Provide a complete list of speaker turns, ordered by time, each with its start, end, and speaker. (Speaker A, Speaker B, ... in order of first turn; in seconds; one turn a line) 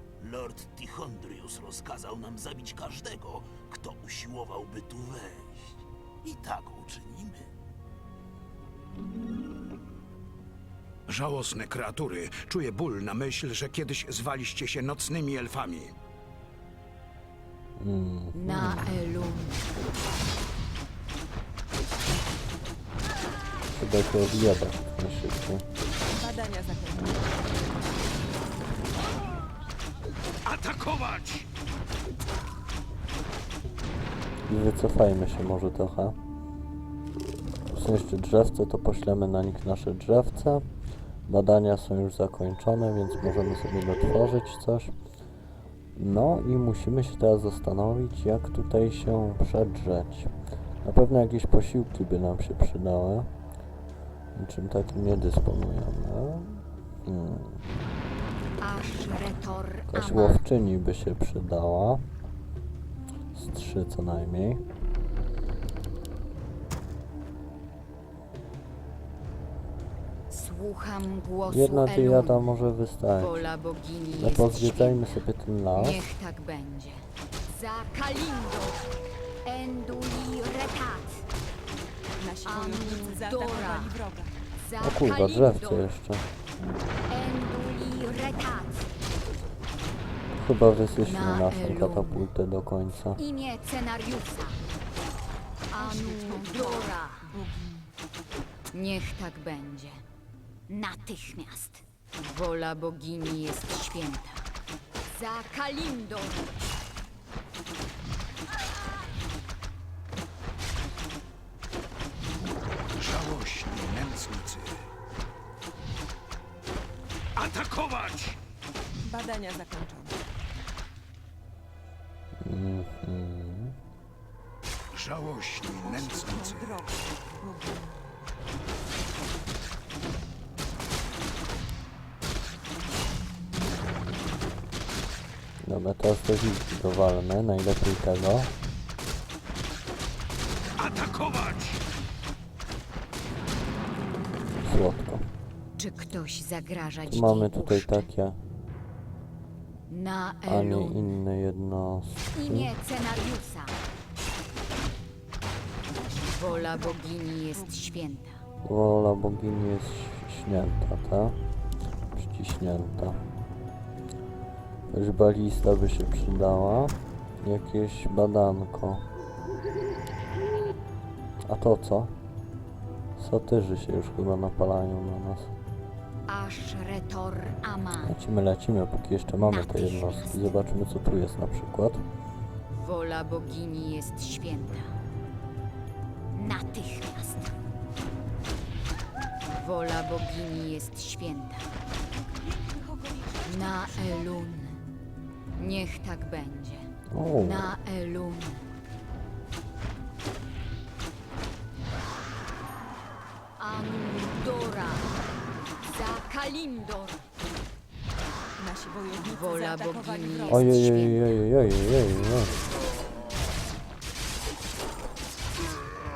Speaker A: 0.2-7.5
Speaker B: 11.1-15.9
Speaker C: 17.8-18.9
Speaker D: 18.3-19.7
Speaker C: 23.7-25.6
Speaker E: 26.0-27.4
Speaker B: 30.4-31.5
Speaker C: 34.5-36.2
Speaker C: 37.7-40.7
Speaker C: 41.3-44.9
Speaker C: 45.9-50.3
Speaker C: 50.8-53.3
Speaker C: 54.3-57.6
Speaker D: 58.6-60.4
Speaker C: 59.9-62.0
Speaker C: 63.3-64.6
Speaker D: 70.3-72.5
Speaker C: 71.5-73.4
Speaker D: 73.2-78.8
Speaker C: 74.1-76.0
Speaker D: 79.4-81.3
Speaker E: 82.2-84.3
Speaker D: 82.4-84.0
Speaker D: 84.5-85.8
Speaker C: 84.8-86.2
Speaker D: 87.1-88.9
Speaker C: 90.3-93.2
Speaker D: 91.0-92.2
Speaker D: 93.2-94.6
Speaker D: 95.7-97.3
Speaker E: 95.8-97.9
Speaker D: 98.7-100.0
Speaker D: 100.7-104.5
Speaker D: 105.0-106.6
Speaker B: 113.0-114.8
Speaker B: 117.3-118.4
Speaker E: 119.0-120.2
Speaker C: 122.4-123.8
Speaker B: 124.9-126.7
Speaker E: 125.8-128.0
Speaker C: 135.6-138.5
Speaker B: 140.8-141.8
Speaker C: 144.6-145.3
Speaker D: 145.8-148.1
Speaker C: 147.1-148.4
Speaker D: 149.9-151.0
Speaker C: 150.5-152.7
Speaker D: 152.3-153.8
Speaker E: 155.8-157.9
Speaker D: 156.3-158.4
Speaker C: 158.6-161.4
Speaker C: 162.1-163.2
Speaker C: 164.9-169.0
Speaker C: 171.5-172.1
Speaker C: 173.2-175.5
Speaker D: 176.3-178.1
Speaker C: 178.0-182.1
Speaker D: 179.4-180.5
Speaker D: 182.7-184.9
Speaker D: 186.3-187.5
Speaker D: 189.5-191.7
Speaker E: 192.2-194.5
Speaker D: 193.4-194.8
Speaker D: 195.6-198.7
Speaker C: 197.1-197.7
Speaker D: 203.6-205.1
Speaker D: 205.8-207.3
Speaker E: 208.6-211.1
Speaker D: 209.3-211.4
Speaker C: 210.5-212.6